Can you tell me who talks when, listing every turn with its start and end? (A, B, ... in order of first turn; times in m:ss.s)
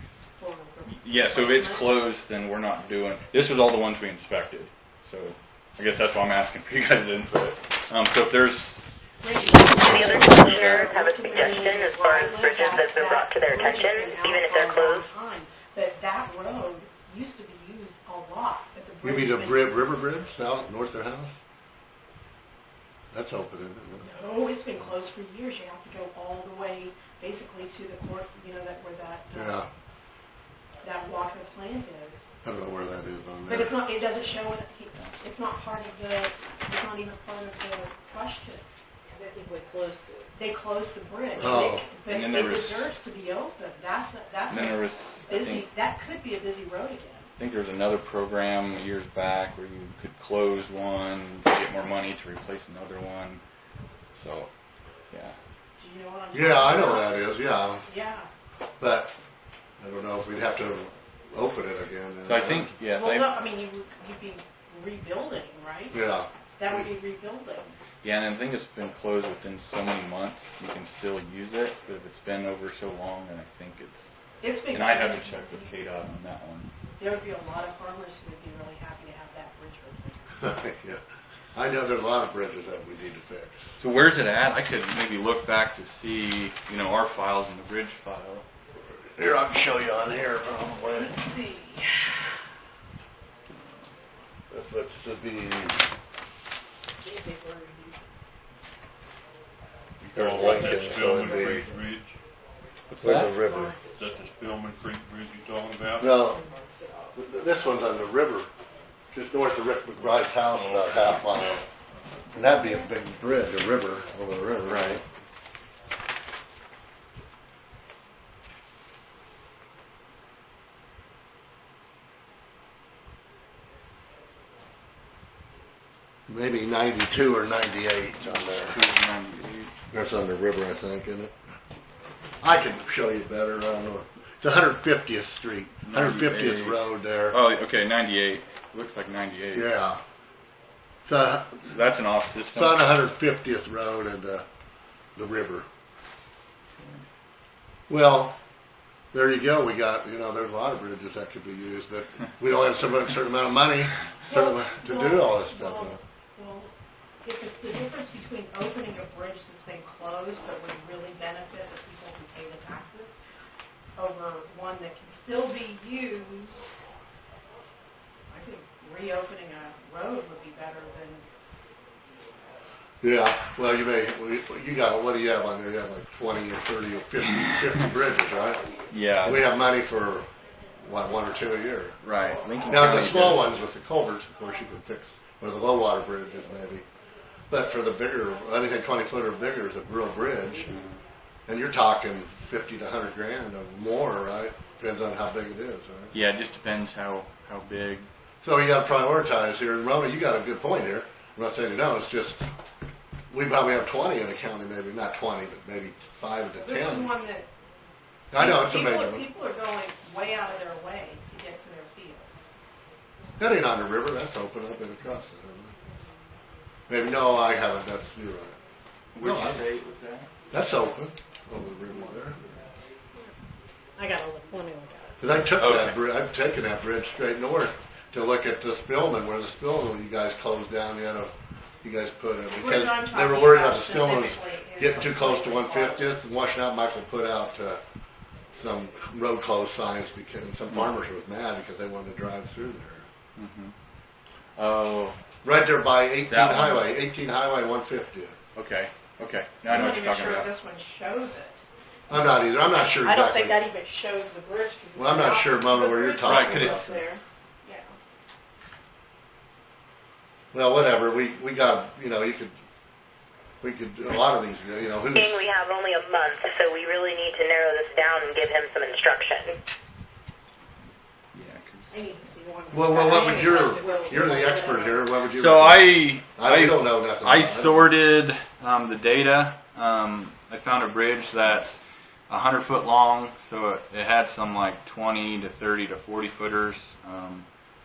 0:00.4-0:02.1 A
0:00.8-0:08.8 B
0:09.2-0:19.7 A
0:09.8-0:15.1 C
0:09.9-0:11.5 B
0:19.0-0:21.3 D
0:23.1-0:24.2 D
0:24.0-0:29.6 A
0:29.3-0:29.7 D
0:30.8-0:32.2 A
0:32.4-0:33.8 D
0:33.5-0:38.6 A
0:39.1-0:40.3 E
0:40.3-0:47.3 A
0:41.4-0:41.9 D
0:42.1-0:42.9 B
0:44.5-0:45.7 B
0:47.4-0:53.4 B
0:54.1-0:54.5 B
0:55.1-0:55.4 B
0:55.8-0:57.2 A
0:56.3-0:57.9 D
0:57.9-0:58.3 A
0:58.8-0:59.2 D
0:59.8-1:02.7 D
1:02.2-1:03.3 B
1:02.9-1:06.0 A
1:05.9-1:06.9 D
1:06.6-1:07.7 A
1:08.0-1:16.7 B
1:14.4-1:15.7 A
1:17.0-1:20.3 A
1:20.4-1:21.0 D
1:21.5-1:23.8 D
1:23.8-1:28.4 B
1:29.0-1:31.2 D
1:30.9-1:32.1 A
1:34.5-1:35.8 D
1:37.0-1:38.0 E
1:40.0-1:42.2 F
1:40.1-1:41.7 D
1:40.3-1:41.7 E
1:43.0-1:43.8 D
1:43.1-1:44.2 E
1:43.9-1:46.2 F
1:46.0-1:46.4 D
1:46.2-1:47.1 E
1:47.2-1:48.5 D
1:49.1-1:51.6 D
1:50.0-1:52.5 F
1:52.3-1:55.0 D
1:54.6-1:55.0 B
2:06.3-2:08.8 D
2:08.2-2:09.7 B
2:09.9-2:11.4 D
2:12.4-2:17.4 D
2:15.9-2:19.7 B
2:19.5-2:20.0 D
2:21.0-2:21.8 D
2:21.7-2:22.9 B
2:22.5-2:24.4 D
2:25.2-2:25.7 D
2:27.9-2:28.4 D
2:29.1-2:36.0 D
2:34.3-2:36.7 A
2:37.2-2:43.2 A
2:44.0-2:46.8 A
2:48.3-2:51.2 A
2:53.0-2:58.6 D
2:58.9-2:59.7 B
2:59.2-3:00.3 D
3:00.8-3:02.0 D
3:02.0-3:03.5 B
3:02.7-3:06.8 D
3:07.5-3:10.7 D
3:10.6-3:11.0 B
3:11.5-3:16.1 D
3:16.1-3:18.1 B
3:18.4-3:22.4 D
3:23.3-3:27.2 D
3:26.6-3:27.5 A
3:28.3-3:29.3 D
3:28.4-3:32.5 A
3:33.4-3:35.8 D
3:36.9-3:38.6 D
3:39.1-3:40.3 B
3:39.2-3:39.6 D
3:40.5-3:42.4 D
3:41.8-3:42.7 B
3:44.0-3:45.2 A
3:45.2-3:57.8 D
3:45.6-3:46.0 B
3:52.5-3:56.3 A
3:58.5-4:03.1 D
4:03.4-4:03.7 B
4:04.6-4:05.2 B
4:05.4-4:08.4 D
4:06.3-4:07.0 B
4:08.6-4:10.5 B
4:09.7-4:11.6 A
4:12.1-4:13.6 D
4:13.0-4:18.0 A
4:15.0-4:16.8 D
4:16.2-4:17.0 B
4:20.5-4:22.6 D
4:23.6-4:25.4 D
4:25.1-4:29.6 C
4:31.3-4:32.0 B
4:31.9-4:35.0 A
4:32.7-4:37.9 D
4:35.3-4:47.5 B